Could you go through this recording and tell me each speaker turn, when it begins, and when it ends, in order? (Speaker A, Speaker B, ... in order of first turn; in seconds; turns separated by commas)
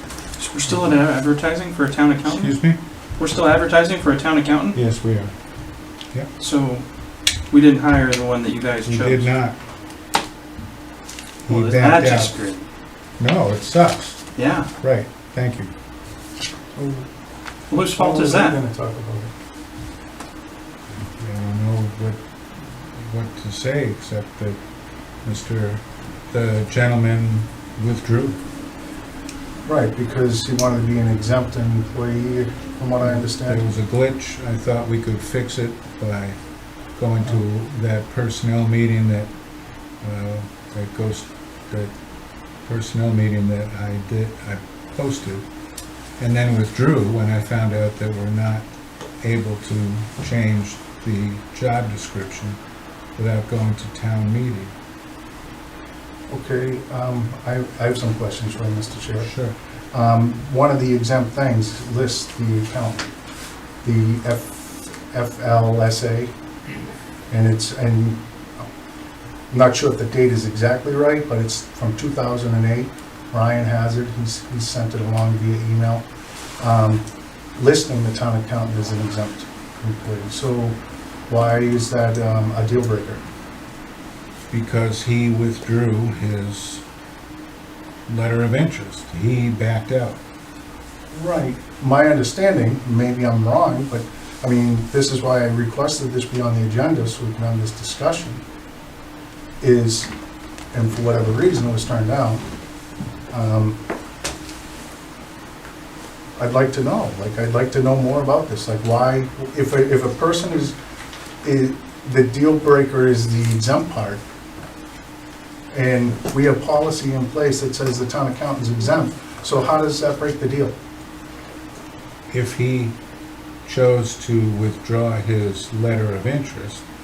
Speaker A: 0.4-2.5, Speaker B: 2.2-2.8, Speaker A: 3.2-4.8, Speaker B: 4.7-5.3, Speaker A: 6.4-6.8, Speaker A: 7.5-9.3, Speaker B: 8.8-9.6, Speaker B: 11.5-12.3, Speaker A: 11.5-12.7, Speaker B: 13.2-14.2, Speaker A: 14.4-14.7, Speaker B: 14.8-15.7, Speaker C: 16.8-17.1, Speaker A: 17.7-18.6, Speaker C: 17.9-19.3, Speaker B: 21.2-24.6, Speaker B: 25.2-28.4, Speaker C: 29.6-33.7, Speaker B: 33.0-36.4, Speaker B: 37.0-39.3, Speaker B: 40.0-41.9, Speaker B: 42.6-45.5, Speaker B: 46.2-48.7, Speaker B: 49.2-52.6, Speaker B: 53.2-54.7, Speaker C: 56.3-59.3, Speaker B: 59.2-59.5, Speaker C: 59.9-63.1, Speaker C: 63.8-66.3, Speaker C: 67.3-68.6, Speaker C: 69.5-76.0, Speaker C: 76.6-77.0, Speaker C: 77.6-83.2, Speaker B: 84.4-86.8, Speaker B: 88.1-90.2, Speaker C: 91.1-98.4, Speaker C: 99.6-100.1, Speaker C: 100.7-102.5, Speaker C: 103.3-103.8, Speaker C: 106.4-110.8, Speaker C: 111.4-114.2, Speaker C: 115.7-120.8, Speaker B: 122.3-123.0, Speaker B: 123.7-126.8